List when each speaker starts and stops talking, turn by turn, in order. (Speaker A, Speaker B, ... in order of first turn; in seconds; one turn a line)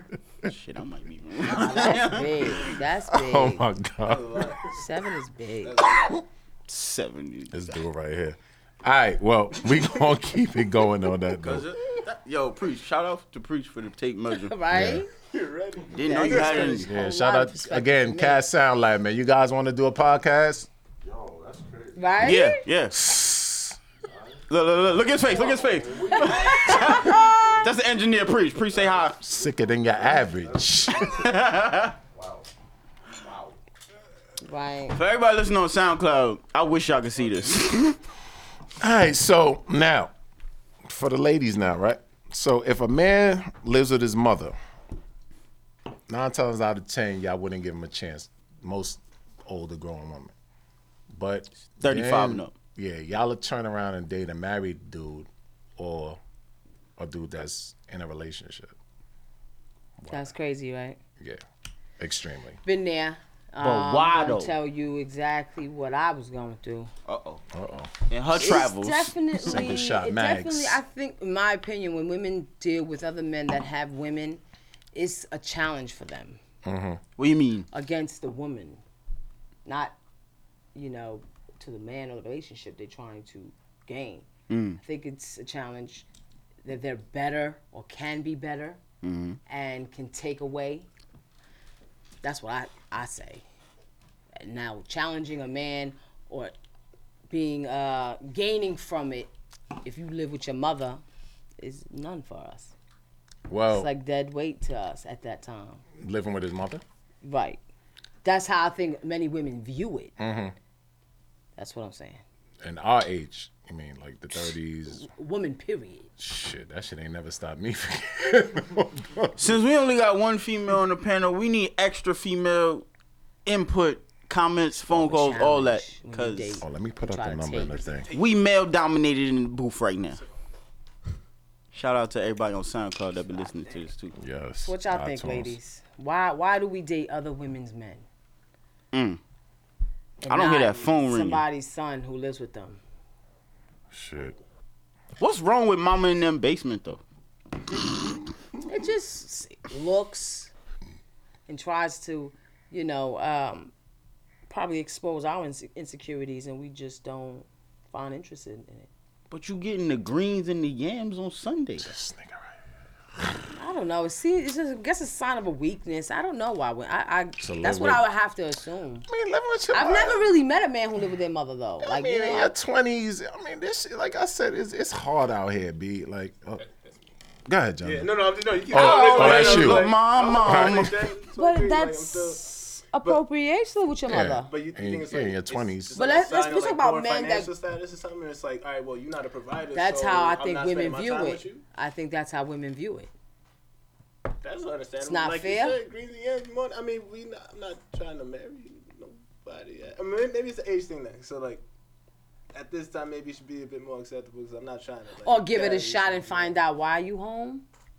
Speaker A: 0.4-2.5
Speaker B: 1.4-3.6
Speaker C: 3.1-4.5
Speaker D: 4.0-4.7
Speaker B: 4.7-5.8
Speaker D: 5.6-6.2
Speaker A: 6.7-7.5
Speaker C: 7.5-11.7
Speaker A: 11.4-14.5
Speaker B: 14.3-15.1
Speaker C: 14.7-15.0
Speaker D: 15.3-16.8
Speaker A: 15.9-16.9
Speaker B: 16.1-18.4
Speaker C: 16.8-20.7
Speaker E: 21.0-22.2
Speaker B: 21.9-22.6
Speaker A: 22.2-23.8
Speaker E: 24.1-26.2
Speaker A: 24.5-29.2
Speaker B: 26.1-27.6
Speaker E: 27.4-27.7
Speaker E: 28.7-30.8
Speaker C: 29.2-31.1
Speaker A: 31.0-32.0
Speaker E: 32.1-32.5
Speaker E: 33.2-33.5
Speaker B: 34.4-35.0
Speaker A: 34.9-38.0
Speaker C: 38.8-40.1
Speaker C: 40.9-44.5
Speaker C: 46.1-50.3
Speaker C: 51.1-56.2
Speaker A: 51.8-52.5
Speaker C: 57.0-58.7
Speaker C: 60.0-60.3
Speaker B: 60.1-61.0
Speaker C: 62.0-62.6
Speaker B: 62.6-66.9
Speaker A: 63.6-64.6
Speaker A: 67.1-67.4
Speaker C: 67.5-67.9
Speaker A: 68.1-69.2
Speaker B: 68.4-74.4
Speaker C: 69.4-70.8
Speaker B: 74.9-76.4
Speaker C: 76.6-77.0
Speaker A: 77.2-77.7
Speaker B: 77.7-78.8
Speaker B: 79.7-80.0
Speaker B: 80.8-84.3
Speaker A: 84.5-84.8
Speaker B: 84.8-86.1
Speaker B: 86.7-88.8
Speaker A: 89.0-89.4
Speaker B: 89.5-90.9
Speaker B: 92.2-93.4
Speaker B: 94.4-96.5
Speaker B: 97.3-99.3
Speaker B: 99.8-101.0
Speaker B: 101.6-102.7
Speaker C: 103.5-103.9
Speaker B: 103.7-105.8
Speaker C: 106.0-106.8
Speaker B: 107.2-107.6
Speaker B: 108.2-110.1
Speaker C: 110.2-110.5
Speaker B: 111.6-112.2
Speaker C: 112.6-115.1
Speaker B: 114.4-116.1
Speaker C: 116.2-119.3
Speaker A: 119.4-122.8
Speaker A: 123.5-126.6
Speaker B: 124.9-127.7
Speaker C: 126.6-128.1
Speaker D: 127.7-128.3
Speaker A: 128.1-130.2
Speaker A: 131.7-134.1
Speaker C: 134.2-135.6
Speaker B: 134.6-138.1
Speaker A: 138.9-139.2
Speaker B: 140.2-142.8
Speaker A: 140.3-141.4
Speaker C: 143.9-144.4
Speaker A: 145.2-147.0
Speaker B: 148.7-150.5
Speaker B: 151.5-153.7
Speaker B: 154.5-158.9
Speaker A: 159.3-161.9
Speaker C: 161.8-162.4
Speaker B: 163.6-169.1
Speaker C: 167.4-168.1
Speaker C: 169.1-170.3
Speaker B: 169.7-172.5
Speaker C: 171.8-176.6
Speaker C: 177.5-178.1
Speaker D: 177.8-182.4
Speaker C: 178.7-180.9
Speaker A: 178.8-181.1
Speaker B: 181.4-184.5
Speaker C: 184.1-186.0
Speaker D: 184.5-191.6
Speaker B: 185.9-187.5
Speaker B: 189.7-193.1
Speaker D: 194.4-201.6
Speaker B: 195.0-195.8
Speaker D: 202.5-206.6
Speaker B: 205.2-207.7